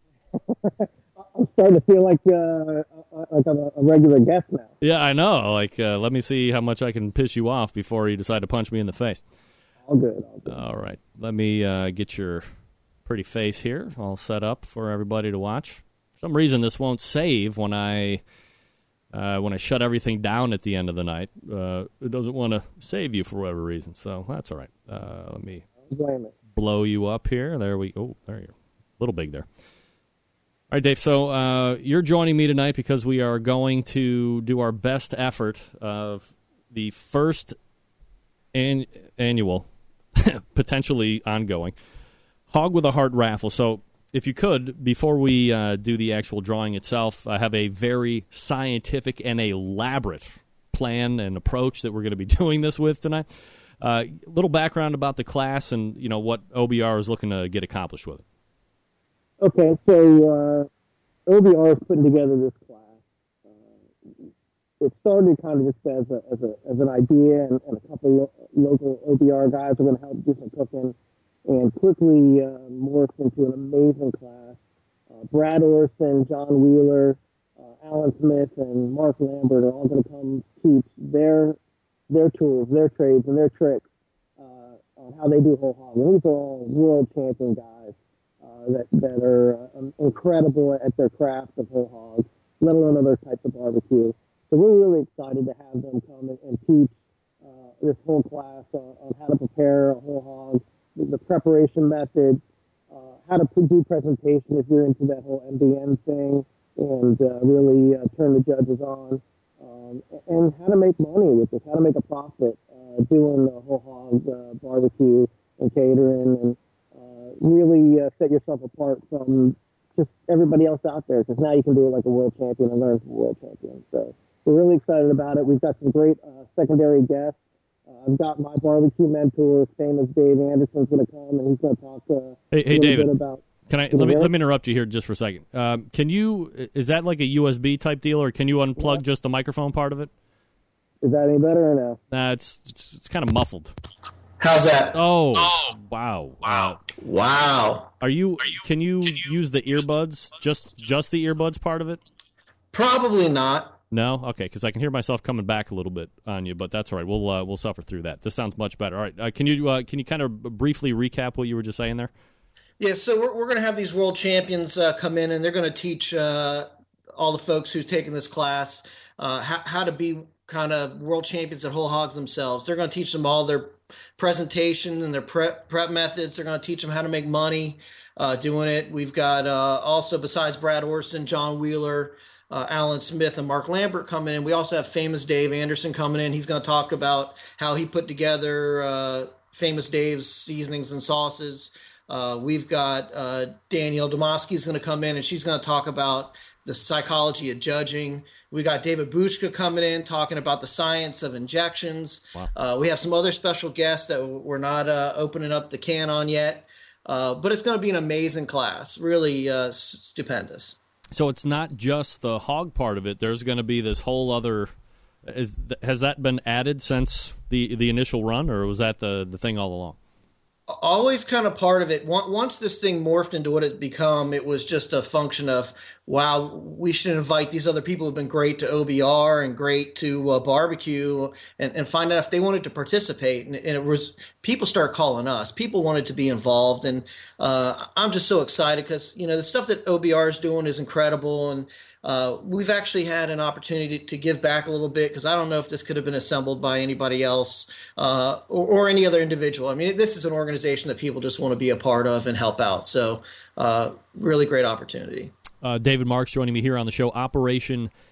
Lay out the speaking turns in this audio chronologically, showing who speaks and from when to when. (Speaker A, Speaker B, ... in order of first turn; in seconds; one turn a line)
Speaker A: 0.5-4.7
Speaker B: 4.8-9.2
Speaker A: 9.9-10.6
Speaker B: 10.5-12.5
Speaker B: 13.1-18.2
Speaker B: 19.1-25.7
Speaker A: 25.8-26.3
Speaker B: 26.6-29.5
Speaker B: 30.7-37.6
Speaker B: 38.5-41.8
Speaker B: 42.5-53.3
Speaker B: 53.8-58.2
Speaker A: 59.4-60.7
Speaker A: 61.3-63.0
Speaker A: 64.8-71.0
Speaker A: 71.5-74.6
Speaker A: 75.2-81.6
Speaker A: 82.1-83.9
Speaker A: 84.4-96.9
Speaker A: 97.5-134.3
Speaker B: 132.5-133.1
Speaker B: 133.7-140.1
Speaker A: 141.0-142.0
Speaker B: 142.1-143.8
Speaker C: 144.4-145.0
Speaker B: 144.9-146.8
Speaker C: 146.9-147.9
Speaker B: 148.0-152.0
Speaker C: 152.7-153.8
Speaker B: 153.9-162.1
Speaker C: 162.8-210.8
Speaker B: 211.1-214.7
Speaker B: 215.2-220.0
Speaker C: 220.7-255.3
Speaker B: 255.6-257.9